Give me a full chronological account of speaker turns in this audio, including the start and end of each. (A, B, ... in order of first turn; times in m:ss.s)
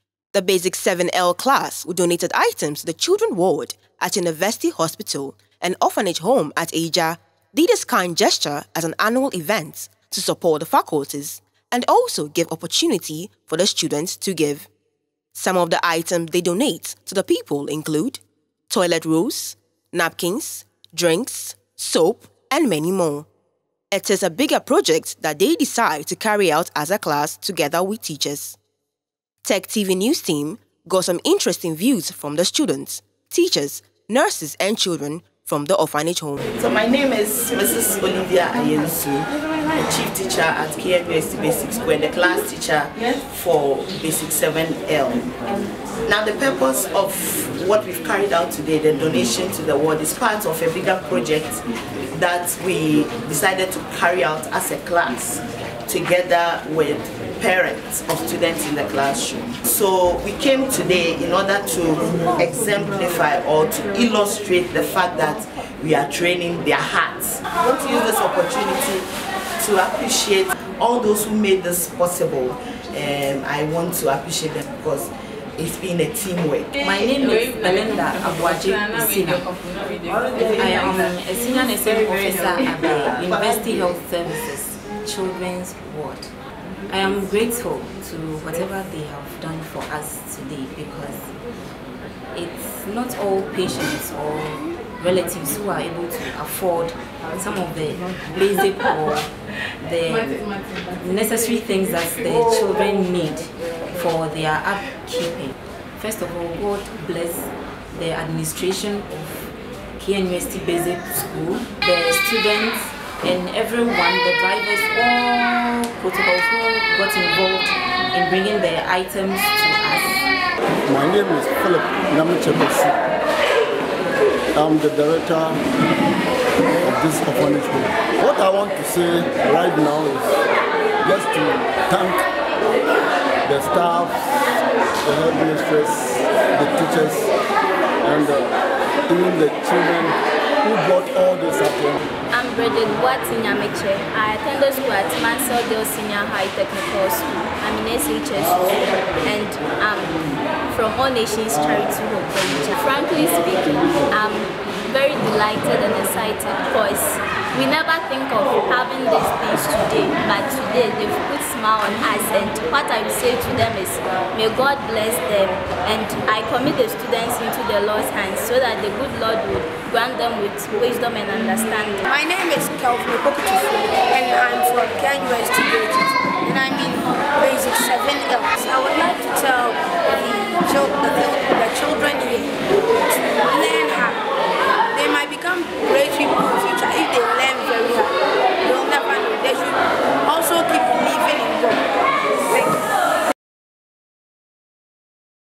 0:00.3-0:14.7 A
0:15.3-0:23.3 A
0:23.9-0:28.6 A
0:29.4-0:36.4 A
0:36.6-0:45.3 B
0:46.0-1:09.1 B
1:09.6-1:16.8 B
1:16.8-1:19.5 C
1:20.1-1:20.9 B
1:20.5-1:26.3 C
1:22.9-1:23.5 B
1:26.9-1:31.3 C
1:32.3-2:00.3 C
2:00.9-2:03.0 D
2:04.5-2:05.6 D
2:06.8-2:10.4 D
2:11.0-2:12.2 D
2:13.4-2:14.3 D
2:15.0-2:17.3 D
2:18.0-2:18.5 D
2:19.1-2:22.0 D
2:22.3-2:52.0 E
2:52.1-3:04.2 F
3:04.9-3:11.9 F
3:12.4-3:12.9 F